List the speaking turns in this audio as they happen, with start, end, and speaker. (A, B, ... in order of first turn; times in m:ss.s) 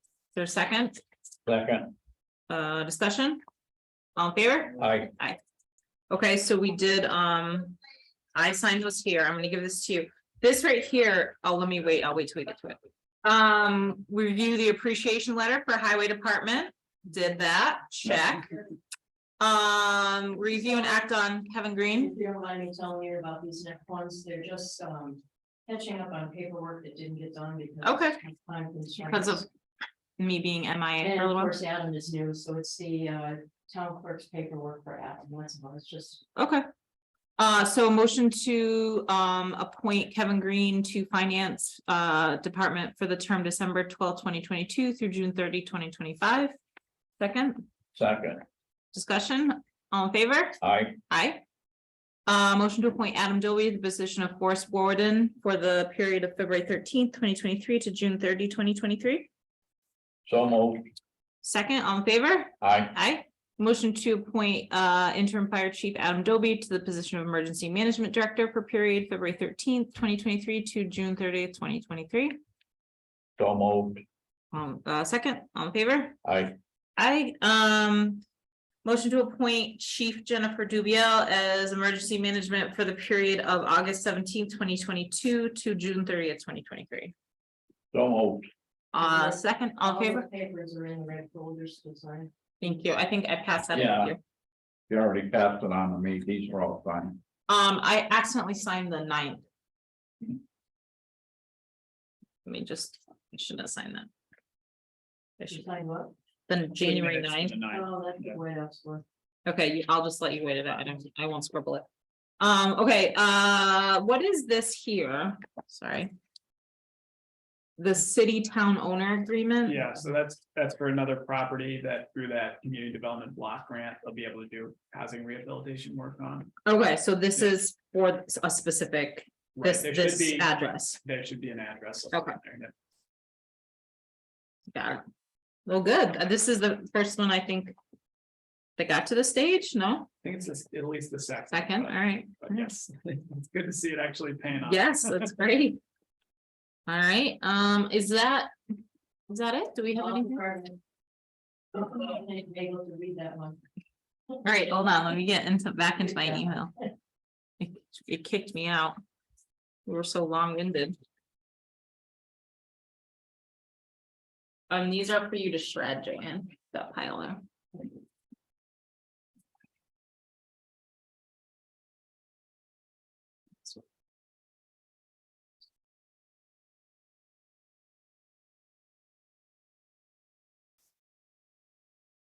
0:00.4-0:01.0 A
0:01.5-0:01.9 B
0:02.5-0:03.4 A
0:04.2-0:05.4 A
0:04.8-0:05.1 B
0:06.1-0:07.8 A
0:08.4-0:18.6 A
0:19.4-0:22.1 A
0:22.0-0:29.5 C
0:27.8-0:28.2 A
0:29.0-0:29.5 A
0:30.2-0:31.6 A
0:31.0-0:36.2 C
0:36.4-0:36.7 A
0:37.4-0:46.6 A
0:47.2-0:47.7 A
0:48.0-0:48.4 B
0:48.9-0:50.6 A
0:50.6-0:51.0 B
0:51.1-0:51.4 A
0:52.3-0:59.3 A
1:00.3-1:00.9 B
1:01.4-1:12.4 A
1:02.6-1:02.9 B
1:13.4-1:14.0 B
1:14.5-1:16.2 A
1:16.2-1:16.6 B
1:17.0-1:18.2 A
1:18.8-1:27.2 A
1:27.9-1:28.5 B
1:28.9-1:30.3 A
1:29.0-1:32.3 C
1:32.6-1:34.2 A
1:33.7-1:34.2 B
1:34.9-1:37.2 B
1:37.5-1:39.4 A
1:42.5-1:44.1 A
1:45.4-1:45.7 A
1:45.5-1:46.1 C
1:46.5-1:47.6 A
1:46.8-1:48.4 D
1:47.7-1:49.0 C
1:49.5-1:51.9 A
1:52.4-1:56.1 A
1:57.8-1:59.8 A
1:59.6-2:06.6 D
2:06.6-2:11.0 A
2:09.6-2:12.8 D
2:12.1-2:12.4 A
2:14.7-2:15.0 A
2:15.7-2:17.8 A
2:18.8-2:20.1 A
2:20.2-2:25.3 D
2:21.5-2:22.7 A
2:24.6-2:25.8 A
2:26.9-2:28.5 A
2:29.3-2:30.4 A
2:30.0-2:30.8 C
2:31.7-2:33.6 C
2:34.4-2:36.7 A
2:36.1-2:36.5 C
2:37.6-2:39.0 A
2:39.9-2:41.0 A
2:44.7-2:47.4 A